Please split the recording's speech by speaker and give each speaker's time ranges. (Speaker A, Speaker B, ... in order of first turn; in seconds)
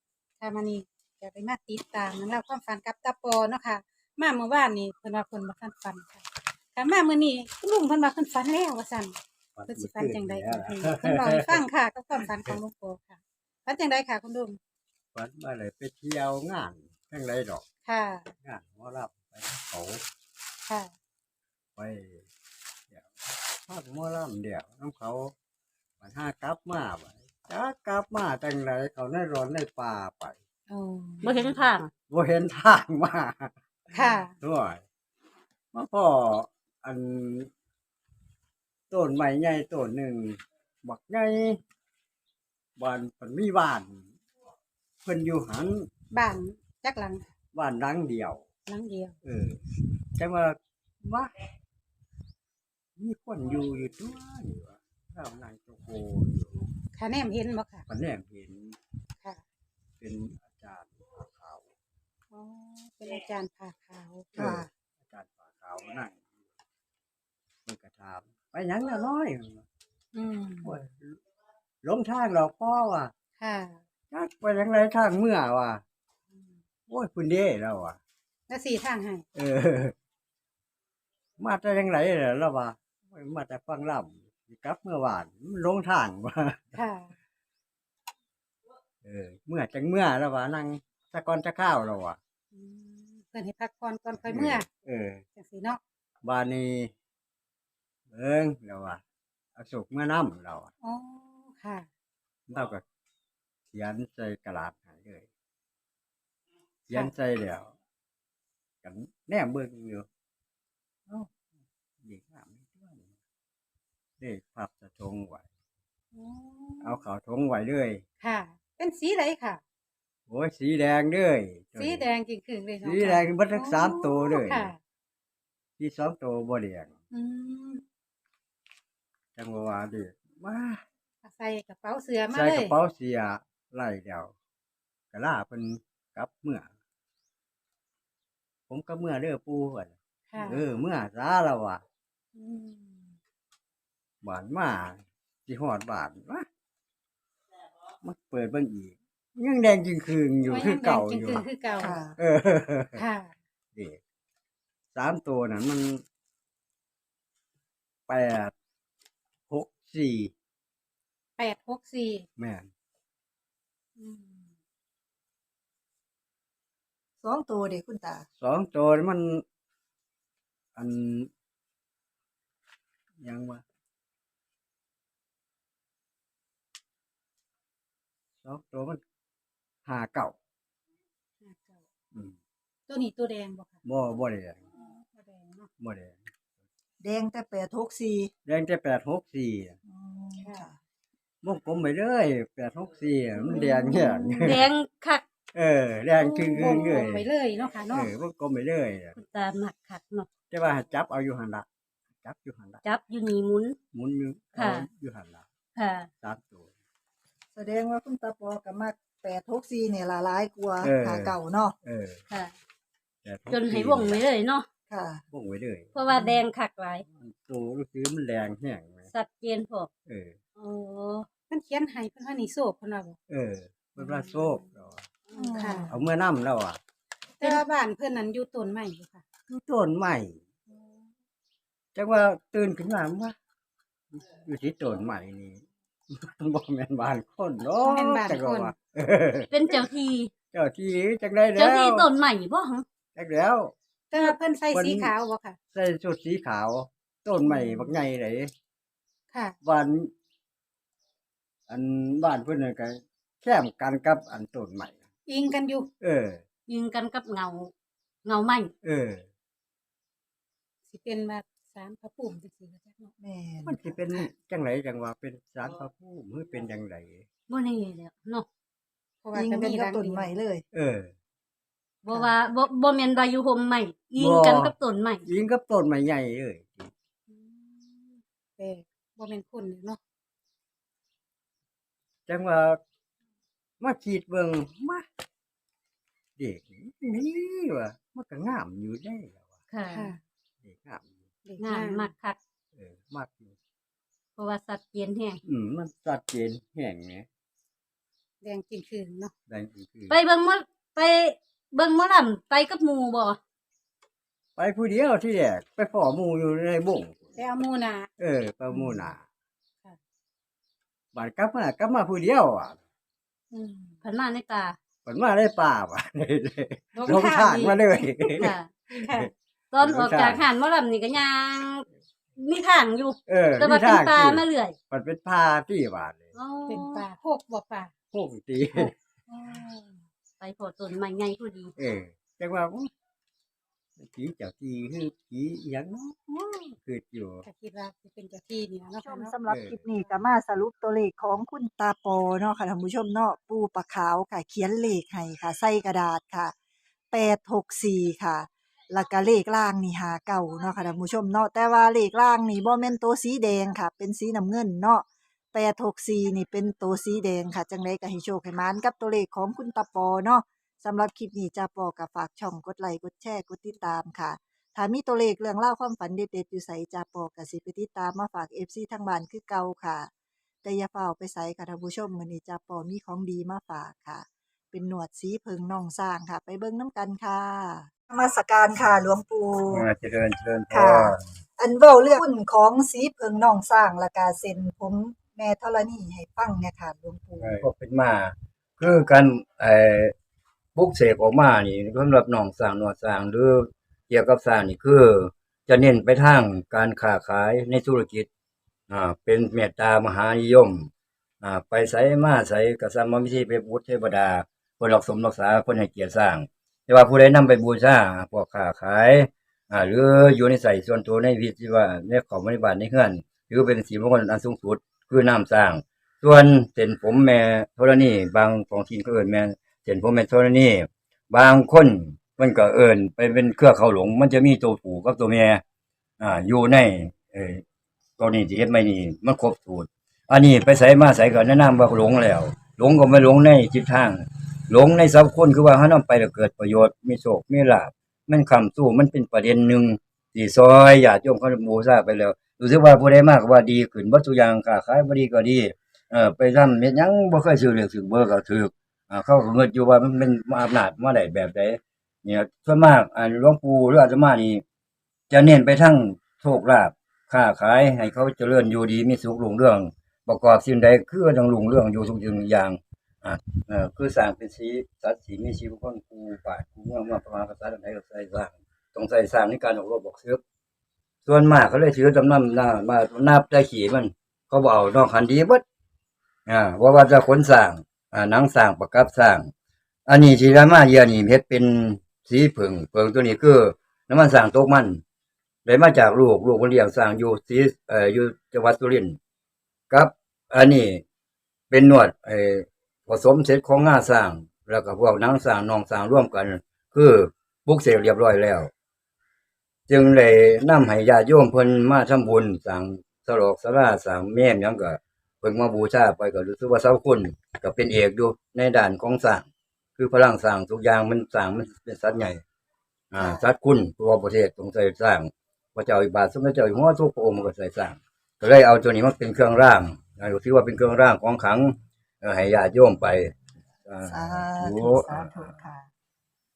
Speaker A: 0.4-9.2, 9.7-14.6, 17.8-18.3, 20.6-20.9, 30.7-31.6, 33.9-34.3, 46.1-47.2, 48.6-49.2, 56.9-57.9, 62.3-64.7, 70.1-70.8, 73.4-73.8, 78.5-79.2, 86.7-87.1, 92.5-94.7, 95.3-95.8, 100.8-101.9, 116.1-117.0, 118.2-119.6, 121.8-124.8, 127.1-127.8, 131.2-132.7, 140.3-140.7, 142.3-143.2, 150.4-152.0, 152.9-153.3, 161.4-162.2, 164.0-164.5, 181.4-181.8, 182.9-183.8, 184.8-185.7, 190.4-190.7, 193.4-194.4, 196.2-198.1, 221.5-223.2, 224.0-224.6, 225.5-226.0, 227.4-229.2, 237.8-238.7, 244.1-245.6, 249.3-249.6, 255.2-255.9, 260.9-263.1, 269.2-270.3, 277.3-280.0, 289.9-290.2, 291.4-292.1, 298.4-299.3, 307.4-308.1, 313.5-314.0, 316.9-319.3, 326.7-327.9, 329.3-330.0, 337.4-339.3
Speaker B: 9.6-11.6, 15.1-17.6, 18.4-20.0, 21.8-22.2, 23.6-25.3, 26.0-30.4, 32.1-34.8, 35.7-37.5, 38.9-41.6, 42.8-44.1, 45.0-45.9, 47.5-48.4, 49.2-49.6, 50.1-51.3, 53.0-56.6, 57.9-58.8, 60.0-61.7, 64.3-66.2, 67.7-69.6, 70.6-71.2, 71.8-73.1, 74.1-75.8, 76.9-78.0, 79.3-79.9, 81.4-86.7, 89.0-92.2, 94.2-95.2, 96.2-96.9, 98.1-99.0, 99.5-100.7, 102.5-102.8, 103.7-105.3, 106.9-107.7, 108.8-110.1, 112.0-113.1, 114.2-115.4, 116.8-118.0, 120.3-122.0, 122.8-124.7, 125.8-126.9, 129.3-130.8, 132.3-134.3, 135.1-136.7, 138.7-141.8, 144.2-146.4, 148.0-151.5, 152.2-153.0, 153.7-154.0, 154.9-156.0, 158.1-158.5, 159.5-160.3, 162.4-162.7, 168.4-169.4, 170.8-171.3, 173.2-173.6, 178.4-179.0, 179.8-180.3, 183.8-184.6, 185.8-186.2, 188.4-189.8, 191.4-194.7, 195.5-197.3, 197.9-199.2, 200.5-201.7, 202.2-202.8, 203.9-205.4, 206.2-206.7, 210.8-212.2, 213.2-214.2, 215.3-215.9, 217.2-219.1, 220.1-220.3, 223.3-225.1, 225.9-226.8, 229.5-230.4, 231.9-233.3, 234.1-239.8, 240.5-242.1, 243.1-245.1, 245.7-248.5, 249.6-250.1, 251.7-255.0, 256.0-256.4, 258.8-259.2, 263.6-267.2, 270.7-271.1, 274.2-276.9, 282.3-282.8, 283.8-285.1, 286.4-289.5, 290.6-291.1, 292.7-293.5, 295.4-297.2, 299.5-300.1, 304.6-307.4, 308.2-309.2, 311.1-312.8, 315.0-320.5, 323.3-326.3, 328.1-328.9, 331.8-332.9, 334.0-337.4, 339.5-339.8
Speaker C: 31.2-31.9, 194.4-195.2, 199.1-200.3, 202.8-203.8, 204.5-204.8, 205.8-206.1, 213.5-214.7, 215.9-217.0, 219.1-219.9, 220.6-221.3, 239.5-240.3, 241.6-242.8, 256.7-257.7, 258.2-258.7, 267.5-268.5, 272.1-275.2, 289.7-290.1, 291.6-292.4, 294.4-295.4, 300.1-303.4, 314.0-314.8, 318.4-318.7, 319.7-321.8, 322.4-324.8, 326.3-327.0, 330.4-331.7
Speaker D: 64.3-64.7, 151.8-152.2, 167.2-168.2, 187.0-188.3, 189.8-190.8, 207.5-211.7, 214.9-215.2, 225.3-226.0, 263.2-263.9, 269.3-270.6, 272.1-272.3, 339.0-346.5, 347.1-370.1, 370.6-379.9, 380.7-387.6, 513.2-513.4, 524.0-525.9
Speaker E: 379.7-381.2, 387.4-390.1, 390.7-398.3, 398.9-400.9, 401.4-425.6, 426.2-427.6, 428.2-454.6, 455.3-470.4, 471.2-475.6, 476.5-479.5, 480.1-485.0, 485.6-489.2, 489.9-491.0, 491.7-498.7, 499.9-509.4, 510.0-512.4, 513.1-523.3, 523.9-525.5